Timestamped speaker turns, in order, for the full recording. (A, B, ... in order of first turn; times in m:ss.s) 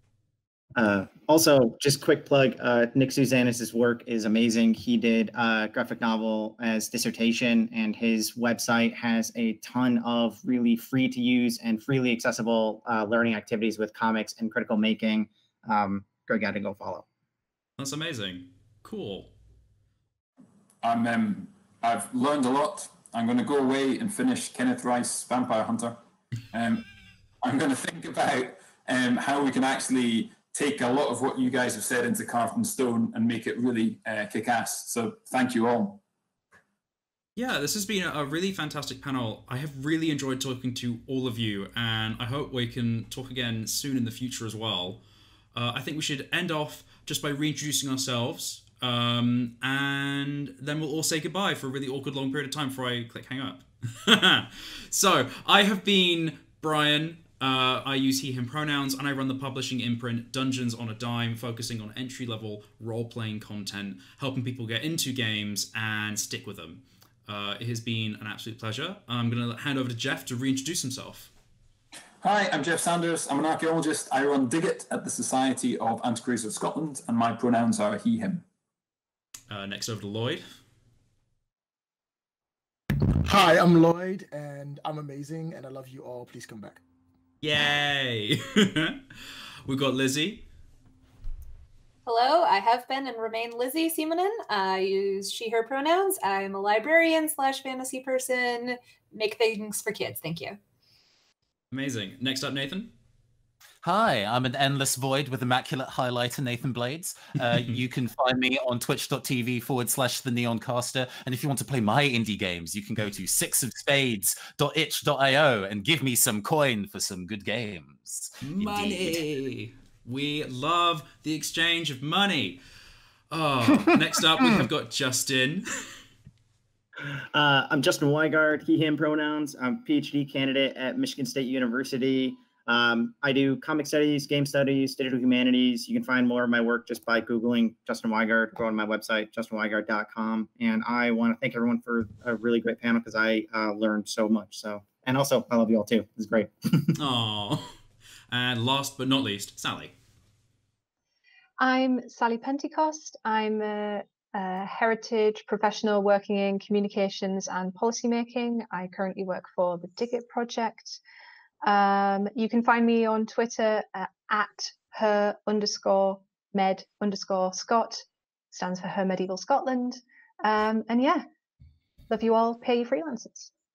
0:00.8-0:17.1 A
0:17.8-0:19.3 B
0:20.8-0:26.0 C
0:26.5-0:26.8 C
0:27.4-0:36.0 C
0:37.4-0:45.0 B
0:45.5-1:11.3 B
1:12.2-1:18.4 C
1:19.5-1:20.5 B
1:23.0-1:26.8 D
1:27.4-1:29.0 B
1:29.6-1:30.4 B
1:32.0-1:40.6 E
1:41.7-1:42.9 B
1:43.8-1:59.2 F
1:58.4-2:02.6 B
2:03.3-2:05.7 B
2:07.1-2:26.9 A
2:27.0-2:27.7 B
2:28.3-2:29.9 B
2:31.6-2:41.0 G
2:41.6-2:51.2 G
2:52.1-2:53.5 G